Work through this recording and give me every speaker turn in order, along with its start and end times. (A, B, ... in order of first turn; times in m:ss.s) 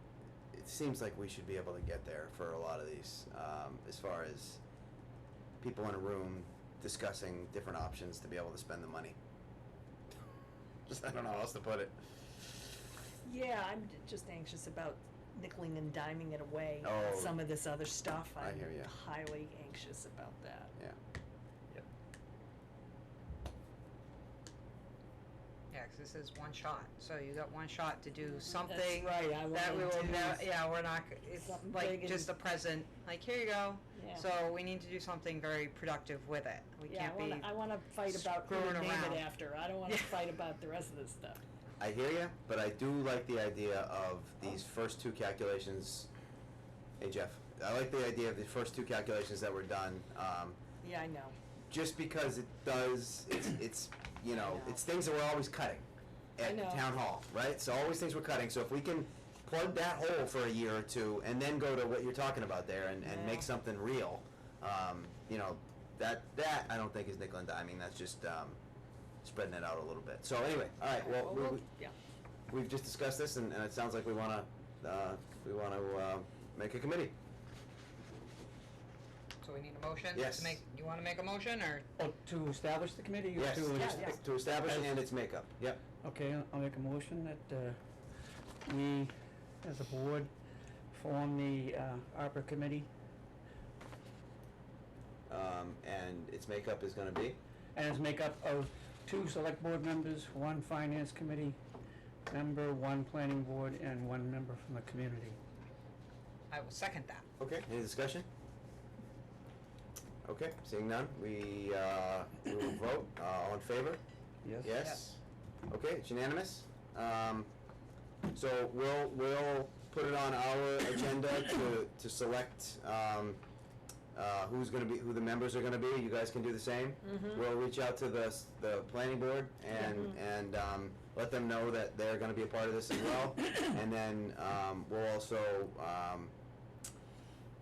0:00.5-0:04.6 A
0:05.6-0:09.2 A
0:10.9-0:12.0 A
0:13.2-0:20.7 B
0:16.8-0:17.4 A
0:18.4-0:18.9 A
0:25.7-0:37.5 C
0:28.5-0:30.5 B
0:31.4-0:32.3 B
0:34.0-0:34.3 B
0:36.9-0:41.4 B
0:38.1-0:39.3 C
0:41.8-0:46.1 A
0:47.0-0:50.6 A
0:50.8-0:51.4 B
0:51.7-0:55.8 A
0:54.3-0:54.8 B
0:56.4-1:08.6 A
0:56.4-0:56.8 B
1:03.0-1:03.5 B
1:09.2-1:11.6 A
1:11.0-1:11.9 B
1:12.5-1:17.1 A
1:19.4-1:21.9 C
1:20.1-1:20.6 A
1:22.0-1:24.9 D
1:23.4-1:25.8 A
1:23.7-1:24.2 B
1:26.0-1:27.8 D
1:28.7-1:30.3 D
1:30.9-1:32.9 D
1:35.3-1:37.4 A
1:37.8-1:41.6 D
1:42.3-1:45.4 D
1:46.5-1:47.2 C
1:47.4-1:48.3 A
1:50.2-1:54.0 A
1:54.4-1:54.7 D
1:54.6-1:57.5 A
1:54.8-1:55.1 C
1:58.3-2:03.4 A
2:04.1-2:16.3 A
2:07.0-2:07.4 B
2:09.7-2:10.2 B